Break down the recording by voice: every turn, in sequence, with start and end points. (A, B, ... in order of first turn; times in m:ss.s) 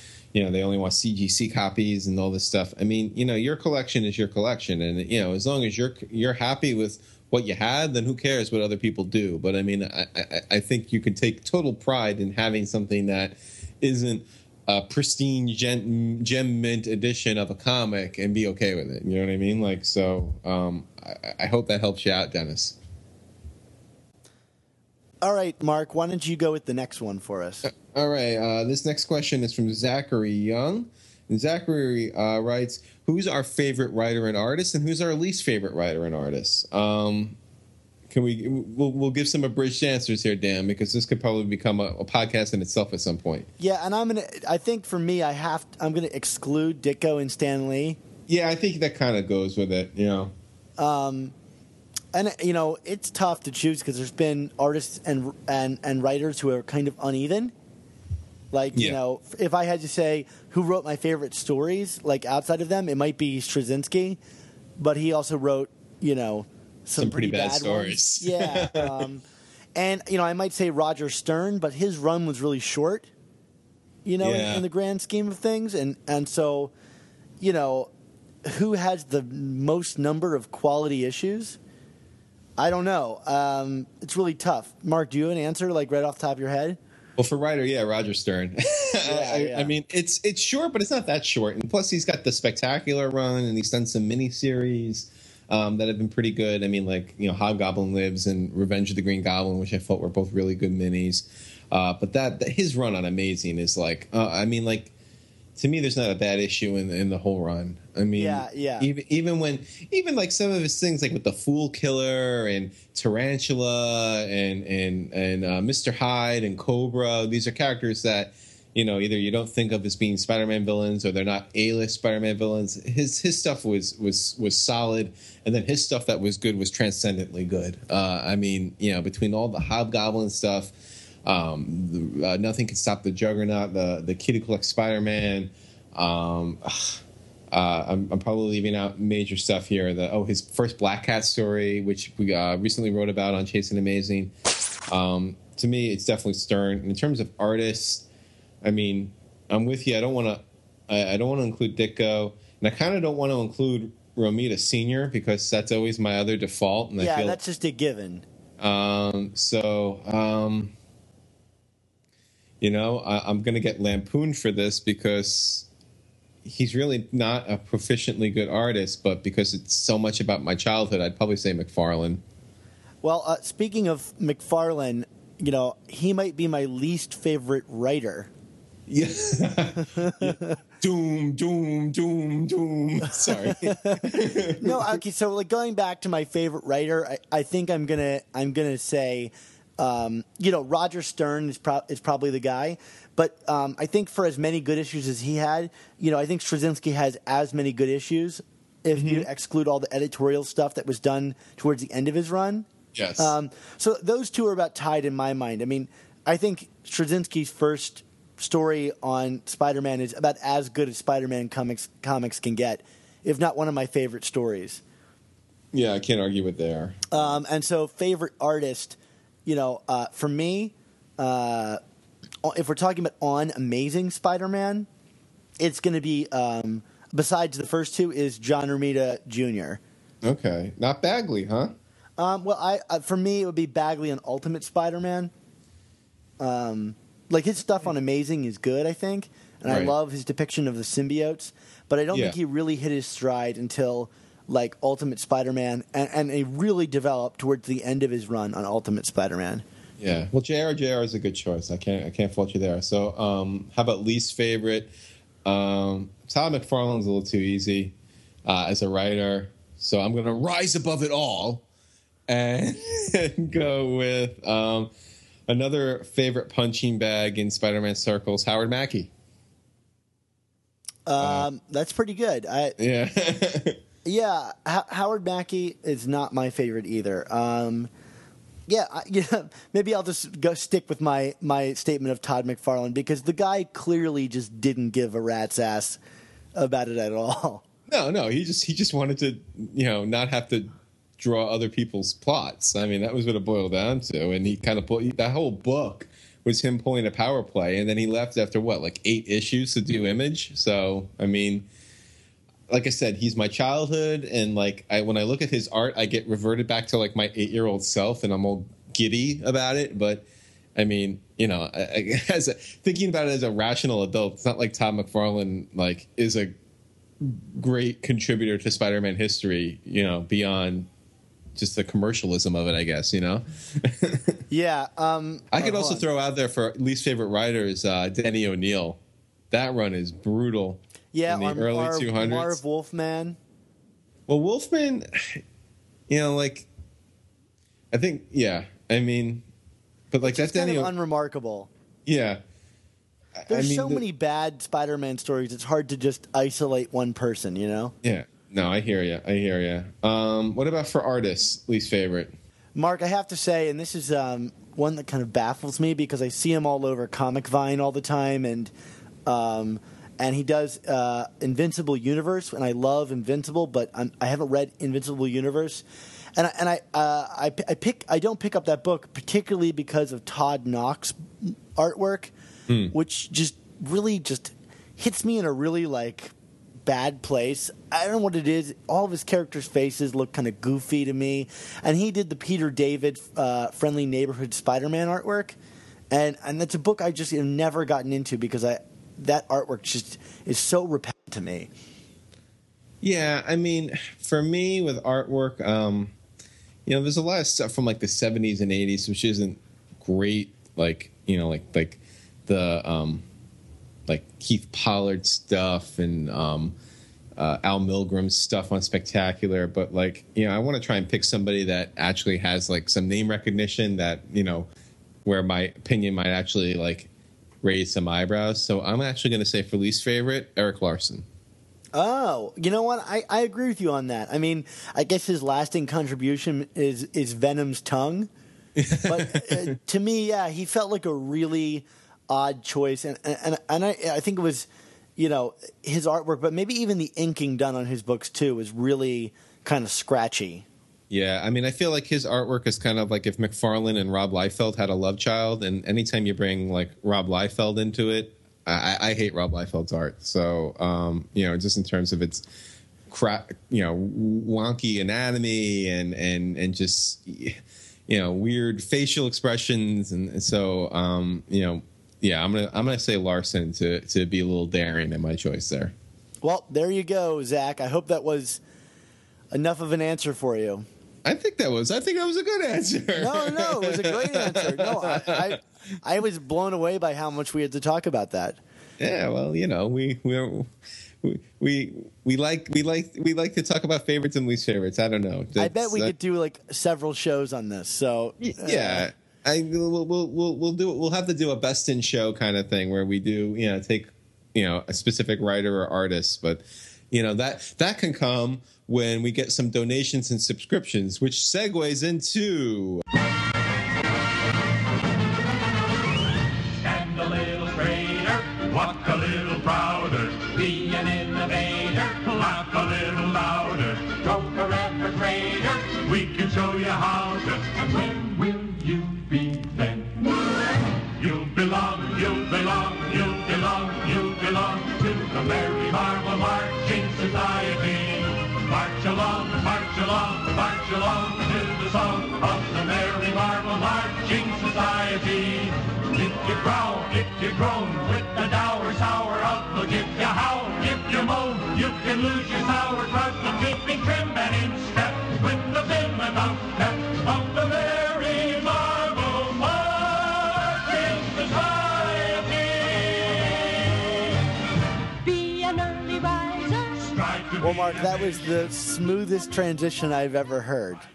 0:00.3-0:22.8 A
0:25.2-0:27.7 B
0:27.7-0:37.4 A
0:38.1-0:43.5 A
0:43.6-0:48.0 B
0:48.3-0:50.3 A
0:50.8-0:51.3 B
0:52.1-0:57.5 B
0:58.5-1:04.2 B
1:04.8-1:09.2 B
1:07.0-1:09.0 A
1:09.7-1:13.1 B
1:14.0-1:16.7 B
1:14.2-1:14.6 A
1:17.4-1:17.9 B
1:18.4-1:21.6 B
1:22.6-1:26.8 B
1:27.2-1:44.9 A
1:29.0-1:29.7 B
1:45.6-2:24.3 A
1:48.2-1:48.9 B
2:24.9-2:28.0 A
2:28.6-2:37.4 A
2:37.0-2:38.2 B
2:38.6-2:40.7 A
2:42.6-2:45.7 A
2:46.4-2:52.2 A
2:53.0-2:58.3 B
2:58.9-3:05.0 A
3:00.0-3:00.6 B
3:03.3-3:22.7 B
3:19.0-3:19.3 A
3:22.9-3:23.3 A
3:23.2-3:34.8 B
3:35.7-3:37.2 A
3:37.1-3:41.8 B
3:42.4-3:44.9 B
3:45.6-3:49.8 B
3:50.2-3:51.7 A
3:52.2-3:55.3 B
3:56.4-4:09.6 B
3:59.7-3:59.9 A
4:10.0-4:14.9 A
4:15.4-4:17.9 A
4:18.4-4:21.6 A
4:22.3-4:24.9 A
4:25.5-4:29.1 A
4:31.0-4:32.8 B
4:31.2-4:31.5 A
4:32.8-4:33.8 A
4:34.0-4:37.9 B
4:38.7-4:46.0 B
4:46.6-4:47.6 B
4:47.9-5:01.7 A
5:02.7-5:10.2 A
5:10.8-5:16.6 A
5:17.2-5:20.9 A
5:21.6-5:24.4 A
5:24.5-5:26.0 B
5:25.5-5:29.0 A
5:29.5-5:32.6 A
5:31.1-5:33.4 B
5:34.3-5:35.4 A
5:36.1-5:36.7 A
5:37.9-5:39.4 A
5:40.1-5:40.9 A
5:40.2-5:41.7 B
5:42.0-5:42.4 A
5:43.4-5:44.0 A
5:43.5-5:47.9 B
5:48.0-5:52.3 A
5:52.7-5:58.7 B
5:59.3-6:05.8 B
6:06.4-6:12.3 B
6:12.7-6:12.9 A
6:12.9-6:16.3 B
6:16.8-6:25.6 B
6:26.1-6:31.7 B
6:33.0-6:36.1 A
6:36.9-6:43.2 A
6:44.1-6:46.8 A
6:47.4-6:54.7 A
6:55.2-6:57.1 A
6:57.6-7:01.3 A
7:01.9-7:08.3 B
7:08.8-7:09.7 A
7:09.0-7:20.6 B
7:21.1-7:32.4 A
7:33.1-7:45.9 A
7:46.4-7:48.6 B
7:49.5-7:50.8 B
7:51.2-7:55.6 A
7:53.2-7:58.6 B
7:59.0-8:00.7 A
8:01.2-8:06.1 A
8:05.6-8:09.0 B
8:08.4-8:23.0 A
8:26.8-8:40.3 C
8:41.2-9:14.0 C
9:15.2-9:18.4 C
9:17.6-9:21.0 B